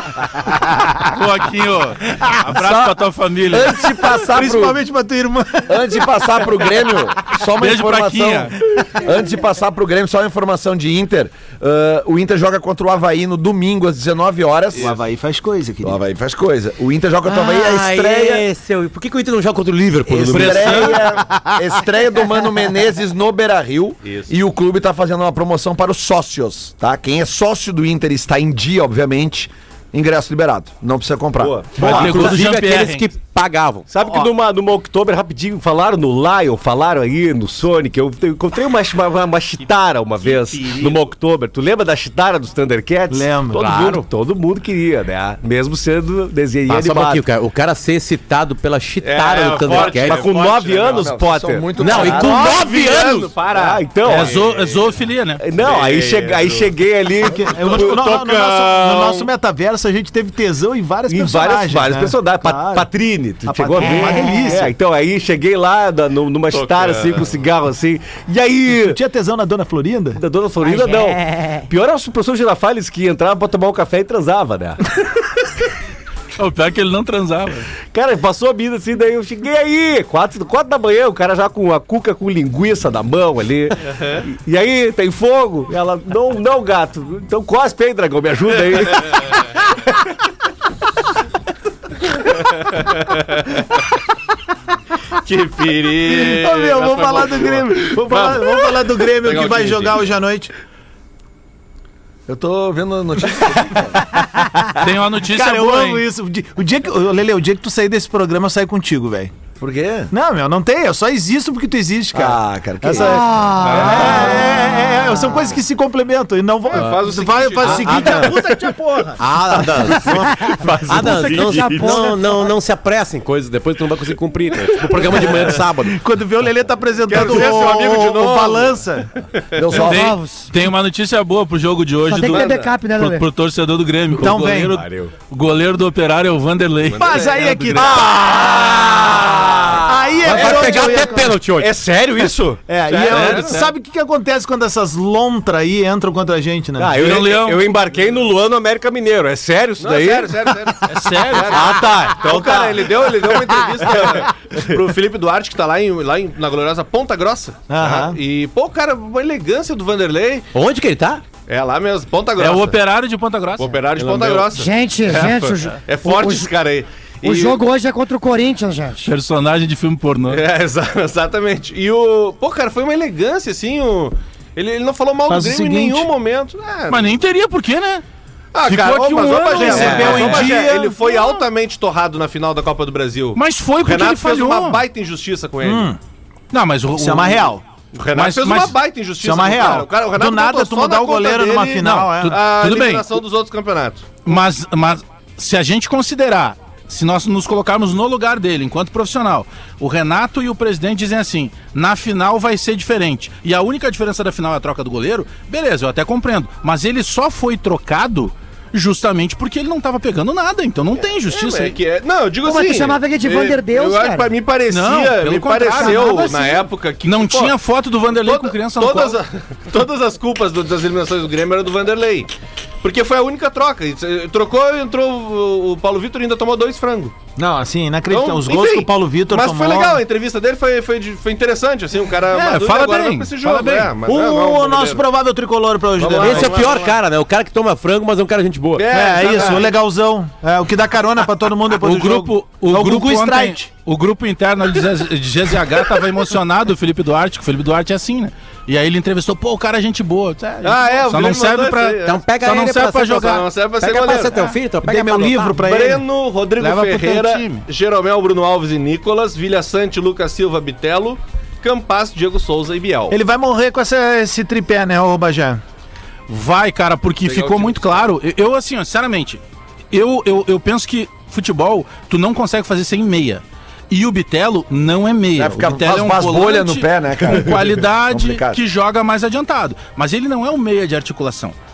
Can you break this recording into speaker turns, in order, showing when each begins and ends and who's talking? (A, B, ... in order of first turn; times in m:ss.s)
0:01.0-0:03.8 A
0:02.5-0:03.0 B
0:03.5-0:04.8 B
0:03.9-0:06.7 C
0:05.7-0:14.9 B
0:07.6-0:08.5 A
0:14.8-0:16.0 C
0:15.8-0:18.5 B
0:17.2-0:20.9 D
0:20.1-0:32.2 B
0:20.3-0:21.0 A
0:31.4-0:32.3 E
0:31.8-0:33.1 A
0:31.8-0:33.9 D
0:33.9-0:47.2 E
0:40.2-0:41.1 F
0:43.1-0:44.0 C
0:43.6-0:44.0 D
0:46.7-0:50.2 D
0:49.0-0:51.2 F
0:49.2-0:54.4 E
0:50.1-0:52.4 B
0:51.8-0:53.3 D
0:51.9-0:54.8 F
0:54.0-0:55.4 A
0:55.4-0:58.3 E
0:55.6-0:56.7 F
0:57.2-1:02.9 C
0:57.6-0:59.2 F
0:58.8-0:59.1 E
1:01.1-1:09.0 E
1:03.4-1:04.7 C
1:06.5-1:07.4 F
1:08.7-1:10.2 C
1:10.2-1:14.8 E
1:10.6-1:11.2 G
1:16.4-1:17.7 A
1:17.9-1:29.5 E
1:32.7-1:33.0 F
1:35.2-1:40.1 F
1:36.0-1:40.5 C
1:42.3-1:44.0 B
1:43.7-1:49.3 C
1:44.8-1:46.0 A
1:49.6-1:50.1 B
1:50.1-2:00.2 C
1:52.1-1:53.2 B
1:53.0-1:54.9 G
1:53.6-1:54.4 F
1:56.7-1:58.5 F
1:57.6-1:58.4 D
1:59.2-2:06.0 D
1:59.5-2:02.0 E
2:01.0-2:01.8 C
2:01.1-2:02.2 G
2:05.8-2:09.1 C
2:07.1-2:08.8 F
2:09.5-2:10.2 B
2:09.7-2:10.5 G
2:09.7-2:14.6 A
2:12.1-2:13.2 G
2:12.2-2:12.6 E
2:14.1-2:14.9 C
2:14.2-2:15.1 E
2:15.3-2:17.8 A
2:17.0-2:18.5 F
2:17.0-2:18.6 C
2:17.8-2:23.5 E
2:19.0-2:19.4 D
2:19.8-2:21.4 C
2:20.2-2:21.7 D
2:22.7-2:26.9 C
2:22.9-2:23.6 F
2:23.1-2:23.7 A
2:26.8-2:34.3 E
2:26.9-2:27.7 A
2:29.8-2:40.5 F
2:30.9-2:31.8 A
2:37.7-2:38.2 C
2:40.5-2:41.2 D
2:41.4-2:42.8 F
2:42.4-2:44.2 A
2:43.6-2:47.6 F
2:44.5-2:46.5 G
2:47.2-2:49.1 G
2:49.0-2:50.4 A
2:50.3-2:57.2 F
2:55.3-2:56.1 C
2:56.9-2:58.0 A
2:58.5-3:05.9 F
2:58.6-3:01.4 A
2:59.5-3:01.0 C
3:03.3-3:04.8 A
3:05.6-3:06.0 C
3:06.5-3:07.5 A
3:07.0-3:07.6 C
3:07.9-3:14.0 F
3:08.1-3:08.8 A
3:09.2-3:12.4 C
3:12.1-3:13.2 A
3:14.2-3:31.8 A
3:31.2-3:37.6 F
3:32.4-3:34.4 G
3:34.7-3:39.2 A
3:35.7-3:36.6 G
3:38.1-3:42.3 F
3:42.8-3:47.1 F
3:47.4-3:50.0 C
3:48.1-3:55.0 F
3:52.3-3:54.0 A
3:54.0-3:56.7 C
3:56.0-3:57.0 F
3:56.2-3:58.9 D
3:58.7-3:59.8 F
3:58.9-4:03.7 C
4:01.7-4:13.5 A
4:05.7-4:06.0 F
4:10.6-4:12.2 F
4:12.0-4:15.6 D
4:13.2-4:14.4 F
4:14.1-4:14.5 A
4:14.8-4:16.0 C
4:15.6-4:23.2 F
4:16.6-4:17.6 A
4:23.1-4:25.6 C
4:26.3-4:41.5 A
4:27.2-4:28.0 F
4:35.4-4:38.6 B